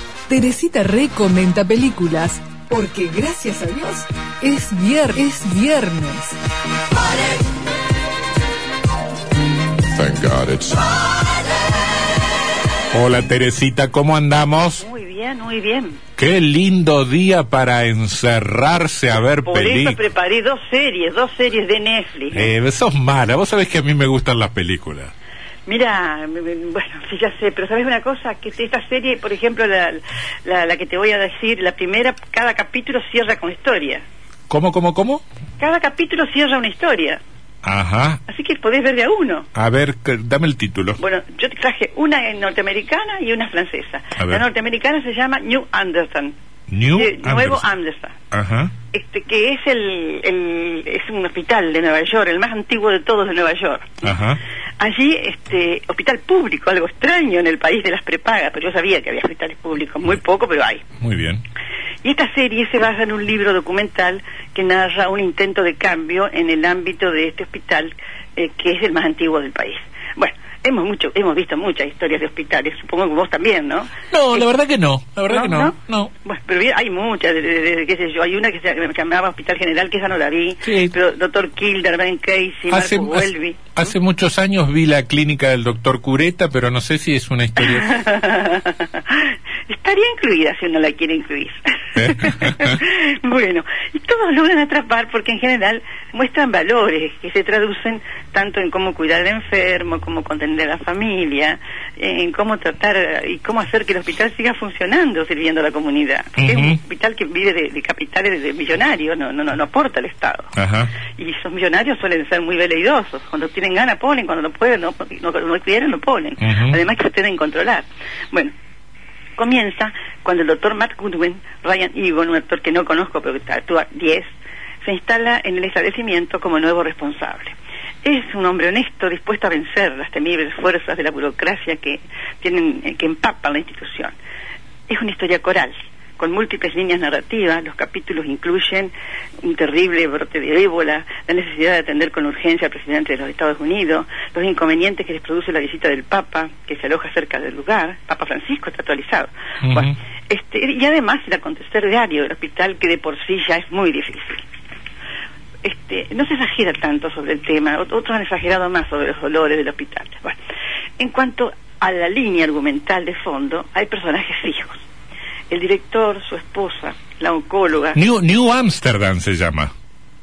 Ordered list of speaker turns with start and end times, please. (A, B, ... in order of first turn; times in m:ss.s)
0:00.3-0:06.4 A
0:10.0-0:10.6 B
0:12.9-0:14.8 B
0:14.8-0:16.0 C
0:16.2-0:20.0 B
0:19.4-0:22.5 C
0:22.3-0:25.1 B
0:25.7-0:34.0 C
0:34.5-0:35.2 B
0:35.6-0:37.2 C
0:37.6-0:38.2 B
0:38.3-0:39.5 C
0:39.6-0:41.0 B
0:41.0-0:46.3 C
0:44.2-0:44.4 B
0:46.7-0:47.7 B
0:46.9-0:48.2 C
0:48.3-0:48.7 B
0:48.9-0:54.2 C
0:54.0-0:54.4 B
0:54.8-1:00.8 C
1:01.0-1:01.4 B
1:02.0-1:14.4 C
1:14.1-1:16.1 B
1:15.3-1:23.9 C
1:20.6-1:21.0 B
1:22.7-1:28.1 B
1:27.6-1:50.5 C
1:32.0-1:32.8 B
1:46.4-1:46.8 B
1:50.6-1:50.9 B
1:51.2-1:58.5 C
1:56.4-1:56.8 B
1:59.4-2:14.2 C
2:14.9-2:34.4 C
2:29.6-2:29.9 B
2:35.6-2:40.4 C
2:41.0-2:44.8 C
2:45.5-2:48.0 C
2:48.0-2:49.7 B